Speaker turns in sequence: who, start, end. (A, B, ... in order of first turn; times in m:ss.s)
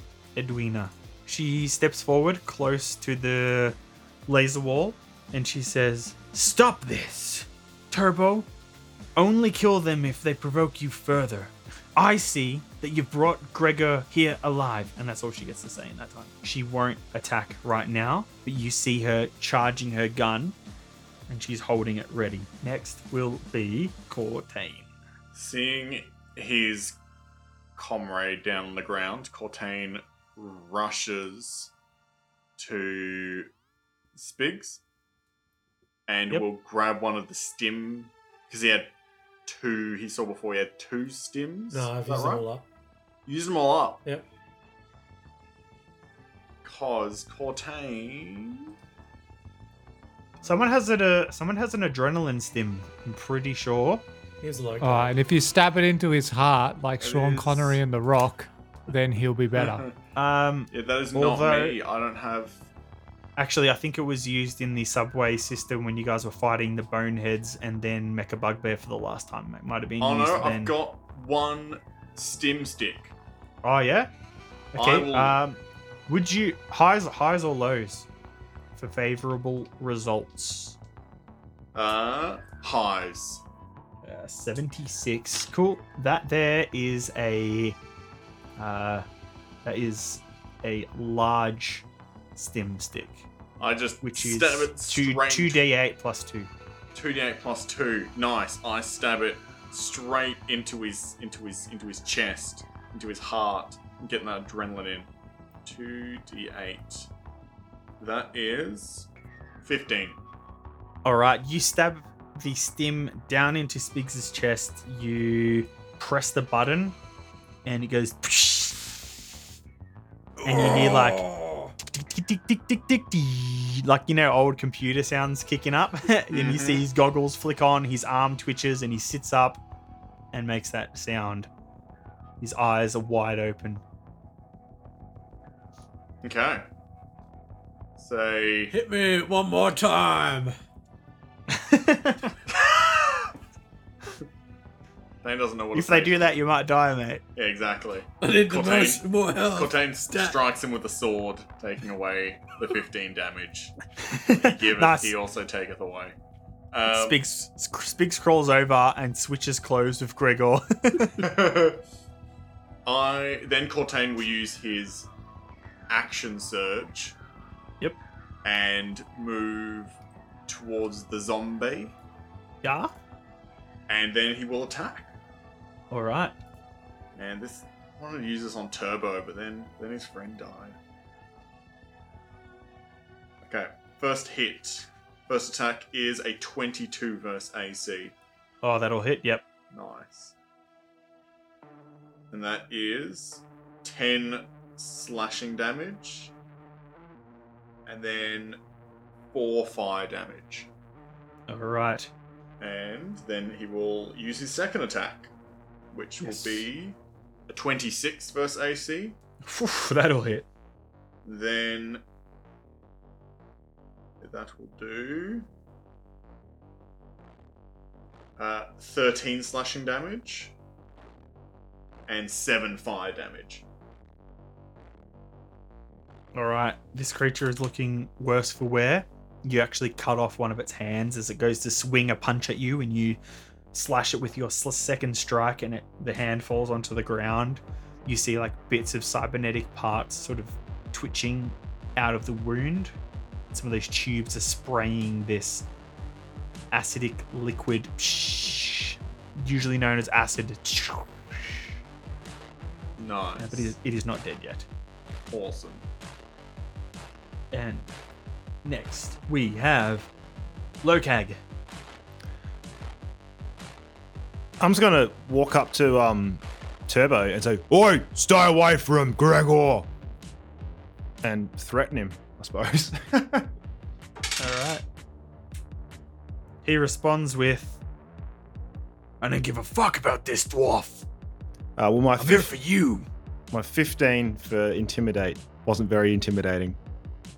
0:00.4-0:08.5 A
0:09.2-0:20.6 A
0:21.3-0:24.9 A
0:25.4-0:27.0 B
0:27.8-0:31.7 B
0:32.6-0:33.5 B
0:34.2-0:34.8 B
0:36.1-0:38.9 B
0:39.5-0:42.4 B
0:41.7-0:42.6 C
0:43.3-0:44.0 B
0:46.6-0:48.7 B
0:50.4-0:54.0 A
0:54.4-0:55.2 C
0:54.8-0:59.9 D
0:57.0-0:57.8 B
0:59.6-1:00.0 B
1:00.2-1:01.8 A
1:00.7-1:02.6 B
1:03.4-1:10.7 A
1:10.0-1:13.1 B
1:13.6-1:14.1 A
1:14.7-1:18.1 A
1:14.8-1:15.4 B
1:18.8-1:20.8 A
1:21.7-1:23.4 B
1:24.0-1:27.8 A
1:28.6-1:29.1 A
1:29.6-1:33.3 A
1:33.6-1:35.6 B
1:34.0-1:36.5 A
1:36.9-1:45.1 B
1:45.7-1:47.1 B
1:48.0-1:49.1 B
1:49.6-1:50.2 B
1:51.0-1:57.0 A
1:57.6-1:59.1 A
2:00.4-2:01.3 A
2:01.8-2:09.6 A
2:06.3-2:06.8 B
2:10.3-2:11.5 A
2:12.4-2:13.8 A
2:16.2-2:16.6 B
2:18.0-2:18.7 B
2:18.7-2:20.6 C
2:21.5-2:22.8 A
2:25.2-2:26.4 B
2:25.7-2:27.2 A
2:27.4-2:36.2 B
2:28.2-2:30.4 C
2:34.0-2:35.1 A
2:36.7-2:37.2 B
2:36.9-2:41.2 A
2:41.2-2:41.8 B
2:42.8-2:45.1 B
2:45.9-2:47.2 B
2:48.4-2:52.0 B
2:52.6-2:52.9 A
2:53.9-2:55.1 B
2:55.9-2:56.4 A
2:57.2-3:00.8 B
3:03.4-3:08.2 B
3:08.6-3:09.4 A
3:09.7-3:10.3 B
3:12.3-3:16.3 B
3:17.9-3:18.6 B
3:19.3-3:20.7 B
3:21.5-3:22.1 A
3:22.6-3:25.3 B
3:25.9-3:27.0 B
3:26.2-3:26.7 A
3:27.5-3:29.2 B
3:29.5-3:30.5 A
3:31.2-3:32.0 B
3:34.2-3:35.5 B
3:38.4-3:40.5 B
3:42.1-3:43.6 B
3:46.3-3:53.2 A
3:53.7-4:03.0 A
4:03.5-4:05.6 A
4:06.7-4:11.8 A
4:13.0-4:13.7 B
4:13.4-4:14.7 A
4:15.3-4:15.8 B
4:17.5-4:17.9 A
4:18.6-4:20.1 A
4:20.8-4:21.4 A
4:24.6-4:29.9 E
4:31.2-4:33.5 E
4:34.4-4:34.8 A
4:36.6-4:37.8 A
4:39.2-4:41.1 A
4:41.8-4:42.6 E
4:42.2-4:43.1 A
4:43.5-4:46.8 E